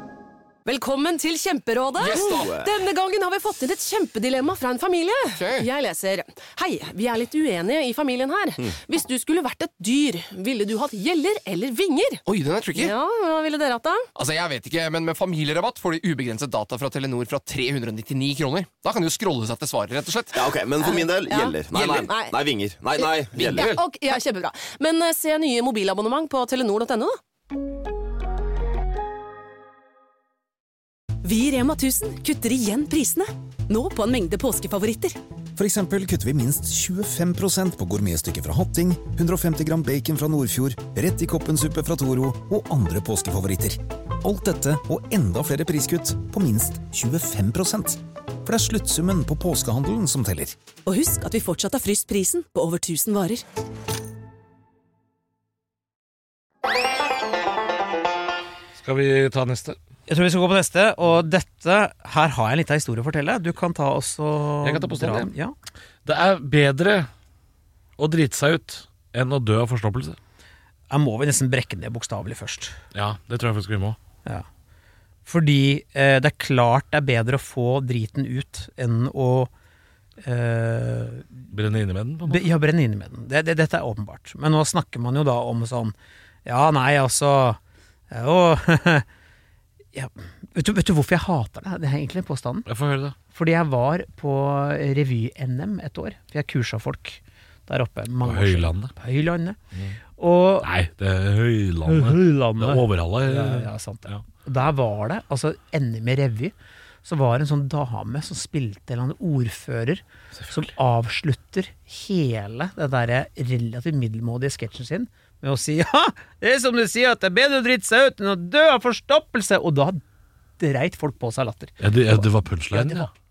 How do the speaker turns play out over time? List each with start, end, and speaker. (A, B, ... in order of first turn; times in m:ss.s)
0:00.6-0:12.2 A
0:02.0-0:02.5 B
0:02.0-0:02.7 C
0:05.4-0:05.7 B
0:12.3-0:12.9 B
0:12.8-0:14.1 A
0:14.2-0:20.5 B
0:20.3-0:23.8 C
0:20.8-0:22.4 A
0:23.0-0:27.2 A
0:23.5-0:23.7 B
0:31.2-0:35.2 D
0:35.6-0:50.6 E
0:50.8-0:53.4 D
0:58.8-0:59.8 F
1:00.1-1:05.5 G
1:04.6-1:05.3 F
1:06.0-1:07.1 F
1:08.0-1:10.2 F
1:10.9-1:12.8 G
1:12.9-1:14.0 F
1:15.3-1:19.5 G
1:20.2-1:21.4 G
1:21.5-1:22.5 F
1:22.3-1:25.9 G
1:26.4-1:27.6 G
1:28.1-1:29.0 G
1:29.9-1:32.7 G
1:32.6-1:33.2 F
1:33.3-1:39.6 G
1:38.2-1:38.9 F
1:40.2-1:40.7 G
1:40.6-1:44.2 F
1:41.9-1:46.5 G
1:47.0-2:00.0 G
1:50.4-1:50.7 F
2:00.6-2:03.1 G
2:01.8-2:03.1 F